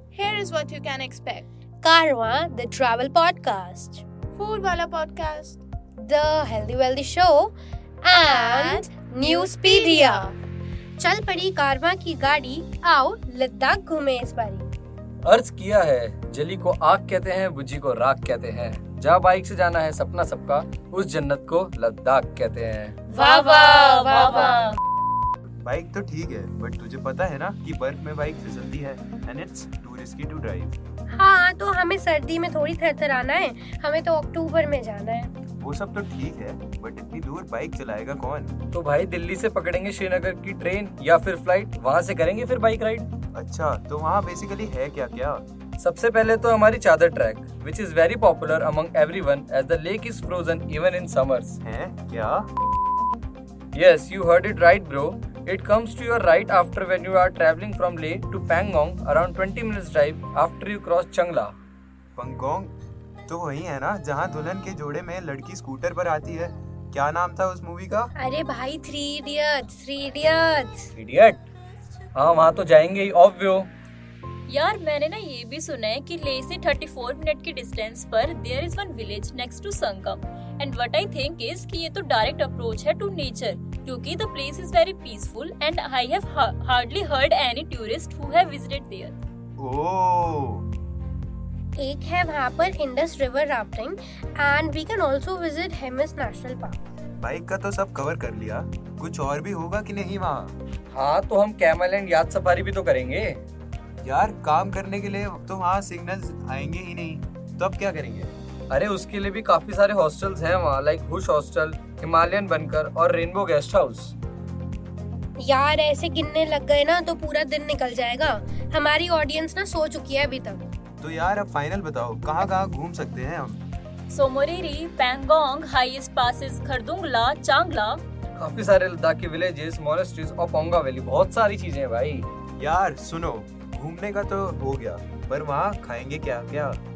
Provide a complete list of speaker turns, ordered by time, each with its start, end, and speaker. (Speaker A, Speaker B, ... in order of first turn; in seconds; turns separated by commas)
Speaker A: 0.1-1.5, Speaker B: 1.8-4.0, Speaker A: 4.4-5.6, Speaker B: 6.0-10.3, Speaker A: 8.1-10.3, Speaker B: 11.0-14.7, Speaker C: 15.2-23.0, Speaker D: 23.1-24.8, Speaker A: 23.1-24.7, Speaker E: 25.6-30.8, Speaker B: 31.1-35.3, Speaker E: 35.6-38.5, Speaker C: 38.7-43.1, Speaker E: 43.4-45.4, Speaker C: 45.8-51.6, Speaker E: 51.6-52.5, Speaker C: 53.7-61.5, Speaker E: 62.2-62.7, Speaker E: 63.3-68.1, Speaker B: 68.2-70.9, Speaker C: 71.0-71.5, Speaker C: 72.2-73.7, Speaker D: 74.5-89.2, Speaker E: 89.6-90.7, Speaker B: 91.8-96.8, Speaker E: 97.2-100.5, Speaker C: 100.9-103.4, Speaker E: 104.0-108.3, Speaker C: 108.7-114.1, Speaker B: 115.4-120.6, Speaker E: 121.0-123.6, Speaker D: 124.1-128.0, Speaker C: 128.4-132.3, Speaker E: 132.6-136.8